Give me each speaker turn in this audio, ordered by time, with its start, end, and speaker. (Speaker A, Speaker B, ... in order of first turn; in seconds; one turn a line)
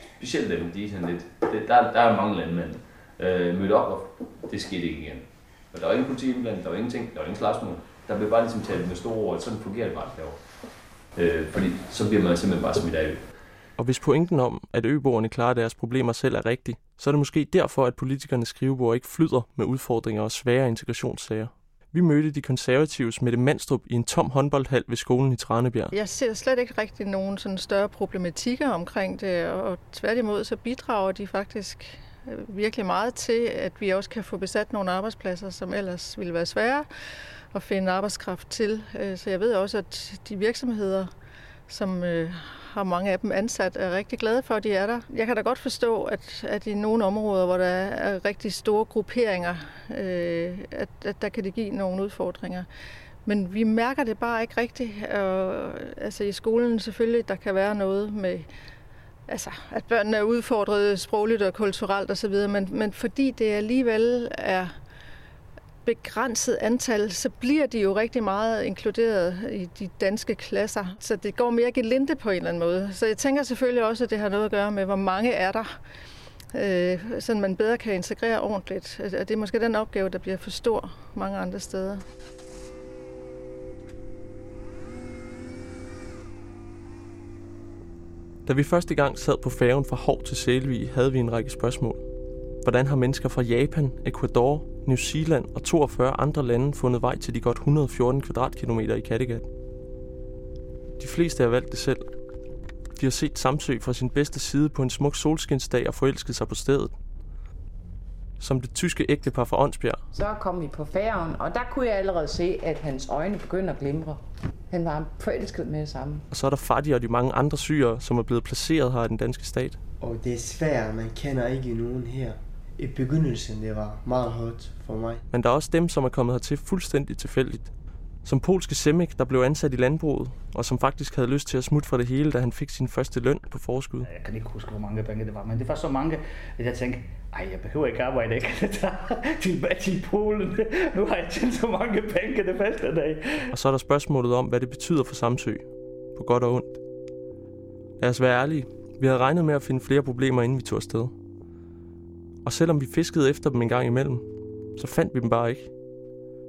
Speaker A: 0.2-10.4
Speaker A: 11.2-13.2
Speaker B: 13.8-26.0
Speaker C: 25.9-36.9
Speaker C: 37.5-41.1
Speaker C: 41.7-52.7
Speaker C: 53.2-58.5
Speaker C: 59.3-64.7
Speaker C: 65.8-75.7
Speaker C: 76.5-82.0
Speaker B: 88.5-92.0
Speaker B: 92.6-99.5
Speaker B: 101.0-102.0
Speaker B: 103.0-107.0
Speaker B: 108.4-110.0
Speaker D: 110.1-116.2
Speaker B: 116.3-119.8
Speaker E: 120.0-125.2
Speaker B: 125.3-127.7
Speaker B: 128.2-134.1
Speaker F: 134.0-143.2
Speaker B: 143.5-146.8
Speaker B: 148.0-151.1
Speaker B: 152.4-155.7